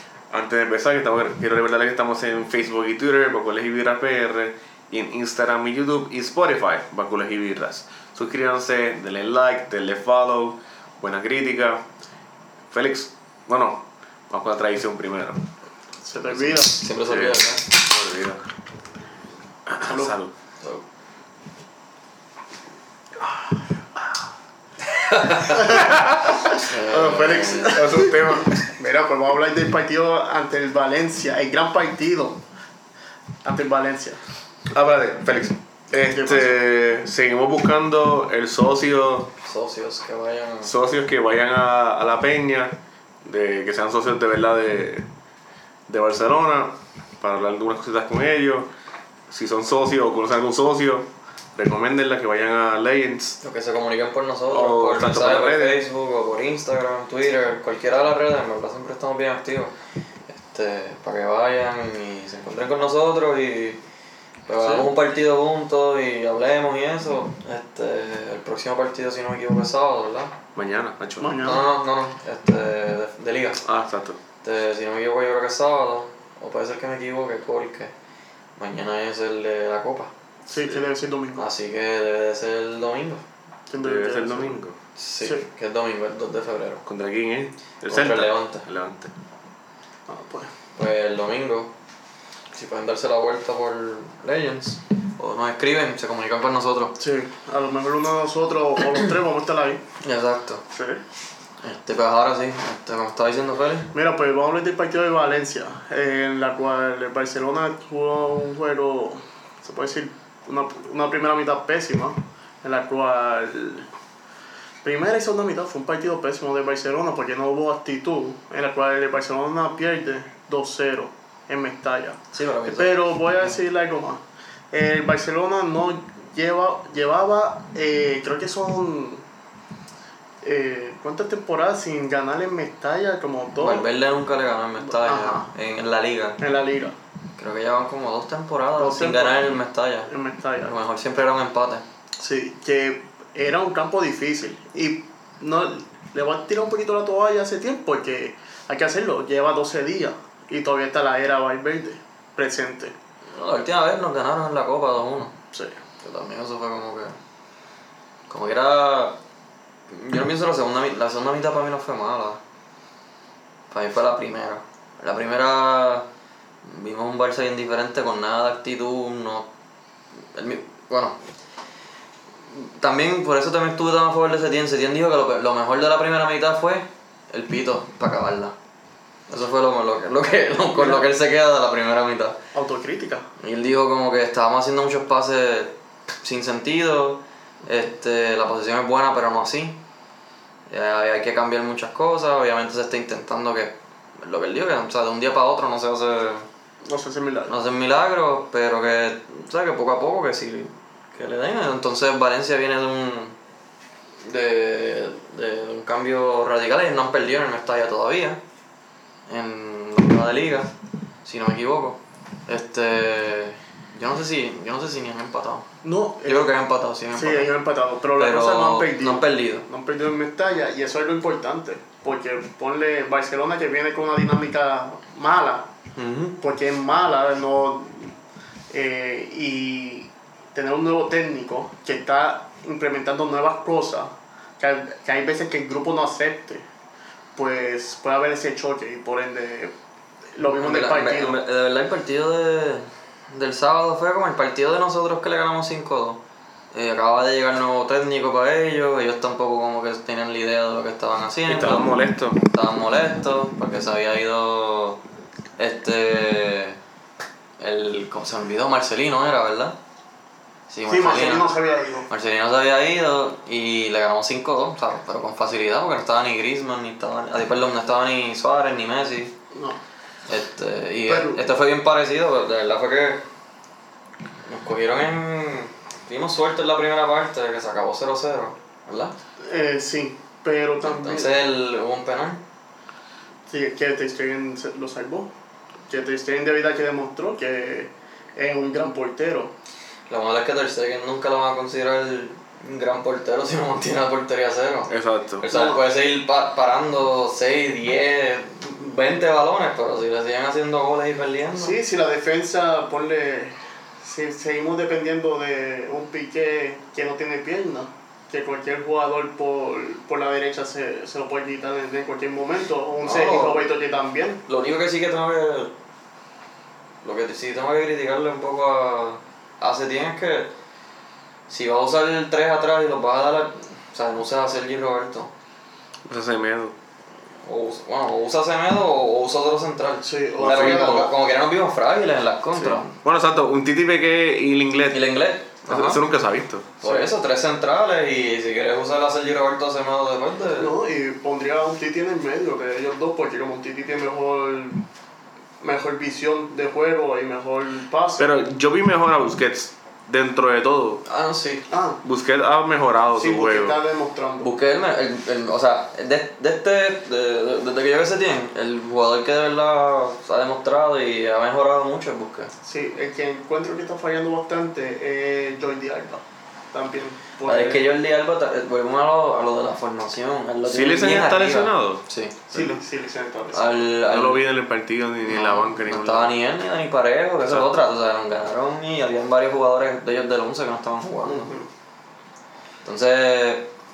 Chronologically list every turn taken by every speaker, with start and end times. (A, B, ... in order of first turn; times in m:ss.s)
0:00.3-0:11.8 A
0:12.7-0:15.4 A
0:16.0-0:16.8 B
0:16.3-0:17.7 C
0:17.1-0:18.4 A
0:19.7-0:20.3 A
0:19.8-0:20.1 B
0:24.9-0:27.8 C
0:25.5-0:32.4 B
0:25.7-0:28.7 A
0:33.4-0:34.2 B
0:34.7-0:39.3 A
0:36.1-0:36.6 B
0:39.4-0:40.7 C
0:40.6-0:45.1 A
0:45.9-0:48.7 A
0:49.3-0:53.4 A
0:53.4-0:59.7 C
0:54.5-0:55.8 A
1:00.3-1:03.8 C
1:04.5-1:10.4 C
1:04.6-1:04.9 B
1:10.5-1:11.4 A
1:11.2-1:11.6 B
1:11.4-1:13.6 C
1:13.6-1:14.2 A
1:14.4-1:17.9 C
1:18.6-1:20.1 C
1:20.5-1:21.5 B
1:21.4-1:23.2 C
1:23.7-1:24.6 B
1:23.8-1:24.8 A
1:25.0-1:26.8 C
1:26.8-1:29.1 A
1:27.9-1:28.7 C
1:30.1-1:30.5 B
1:30.8-1:31.7 C
1:32.5-1:36.9 C
1:37.0-1:39.8 B
1:40.0-1:40.6 C
1:40.7-1:41.0 B
1:41.6-1:43.9 C
1:43.9-1:53.9 B
1:54.8-2:04.2 B
2:02.3-2:03.0 C
2:04.7-2:09.2 B
2:10.4-2:13.9 B
2:13.6-2:16.4 C
2:14.9-2:15.5 B
2:16.4-2:17.0 B
2:17.4-2:20.1 C
2:18.8-2:20.8 B
2:20.6-2:21.8 C
2:22.2-2:32.9 B
2:33.3-2:35.3 C
2:36.0-2:37.2 C
2:38.3-2:39.2 C
2:39.9-2:42.4 C
2:43.7-2:46.1 C
2:46.6-2:49.5 C
2:50.3-2:51.2 C
2:52.5-2:58.5 C
2:59.3-3:02.4 C
3:00.8-3:01.0 B
3:02.5-3:03.2 B
3:03.4-3:09.8 C
3:10.7-3:16.5 C
3:16.8-3:17.5 B
3:17.5-3:23.4 C
3:24.2-3:28.4 C
3:29.3-3:30.7 C
3:31.2-3:35.7 C
3:35.8-3:36.5 B
3:36.2-3:37.5 C
3:37.1-3:45.7 B
3:38.1-3:39.6 C
3:46.0-3:46.4 C
3:46.4-3:48.1 B
3:48.7-3:56.6 B
3:57.4-3:59.7 B
4:00.3-4:01.4 B
4:00.6-4:06.2 C
4:06.7-4:11.9 C
4:11.5-4:12.4 A
4:12.5-4:15.0 C
4:15.6-4:16.8 C
4:17.6-4:19.8 C
4:20.7-4:21.5 C
4:20.9-4:22.1 B
4:22.1-4:29.3 C
4:29.5-4:29.8 B
4:30.3-4:33.2 C
4:31.1-4:31.4 B
4:34.5-4:39.1 C
4:39.4-4:41.4 B
4:40.8-4:42.4 C
4:43.5-4:45.3 B
4:45.9-4:49.5 B
4:50.1-5:01.8 C
4:54.9-4:55.4 A
4:55.5-4:55.8 B
5:01.6-5:14.4 B
5:13.0-5:13.7 C
5:14.5-5:15.7 C
5:17.0-5:20.5 C
5:21.5-5:25.3 C
5:26.1-5:26.7 A
5:27.4-5:33.0 C
5:30.0-5:31.1 B
5:30.4-5:31.1 A
5:33.0-5:35.1 A
5:34.9-5:36.0 C
5:35.7-5:36.7 A
5:36.8-5:40.7 C
5:36.8-5:37.1 B
5:40.6-5:44.8 B
5:45.6-5:48.3 B
5:48.2-5:51.0 A
5:51.0-5:51.6 C
5:51.7-5:52.0 B
5:52.0-5:53.8 A
5:53.1-5:54.5 B
5:54.4-6:02.5 C
6:02.6-6:07.8 B
6:07.4-6:12.8 C
6:10.6-6:12.0 A
6:12.5-6:13.9 B
6:13.5-6:14.4 C
6:14.1-6:16.3 A
6:15.3-6:21.5 C
6:17.4-6:17.7 A
6:21.2-6:21.7 B
6:22.8-6:23.7 C